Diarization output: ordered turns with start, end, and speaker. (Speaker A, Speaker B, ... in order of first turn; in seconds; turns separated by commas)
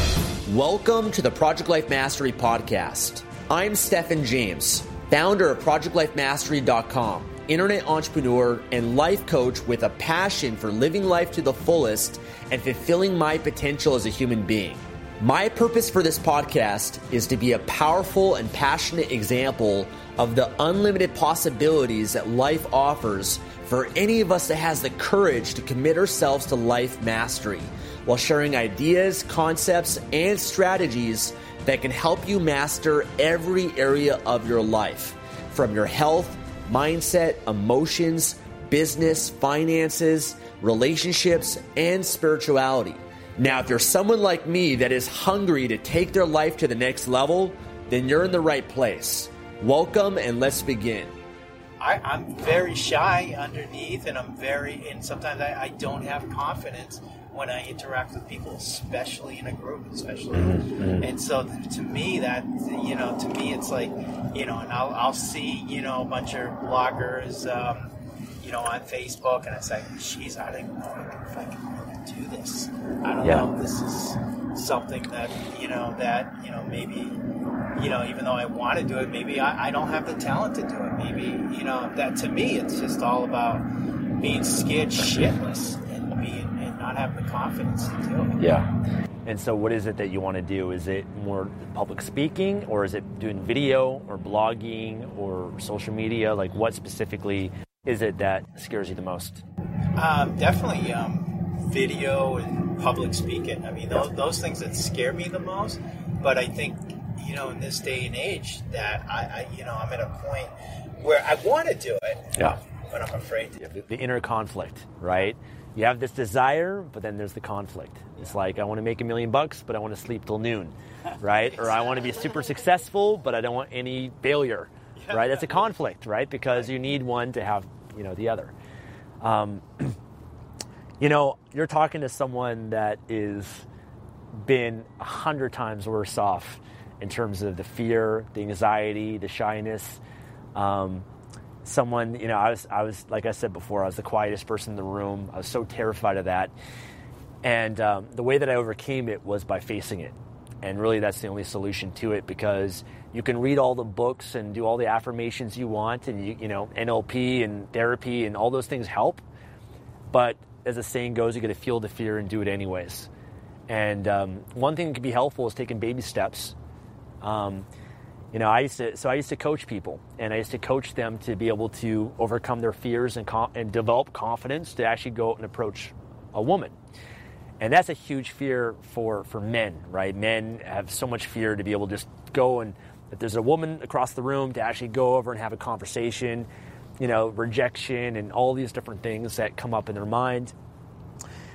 Speaker A: 0.5-51.1, Speaker B: 51.8-67.9, Speaker A: 60.3-61.1, Speaker B: 68.4-77.2, Speaker A: 73.2-73.5, Speaker B: 77.8-83.7, Speaker B: 84.2-88.4, Speaker A: 88.4-88.7, Speaker A: 89.3-99.4, Speaker B: 100.0-113.5, Speaker A: 113.6-128.5, Speaker A: 129.2-130.0, Speaker A: 131.0-133.7, Speaker A: 134.4-140.0, Speaker A: 140.6-141.1, Speaker A: 141.6-146.5, Speaker A: 147.4-159.2, Speaker A: 160.1-163.1, Speaker A: 163.7-166.6, Speaker A: 167.2-167.7, Speaker A: 168.3-176.8, Speaker A: 177.6-186.5, Speaker A: 187.0-190.5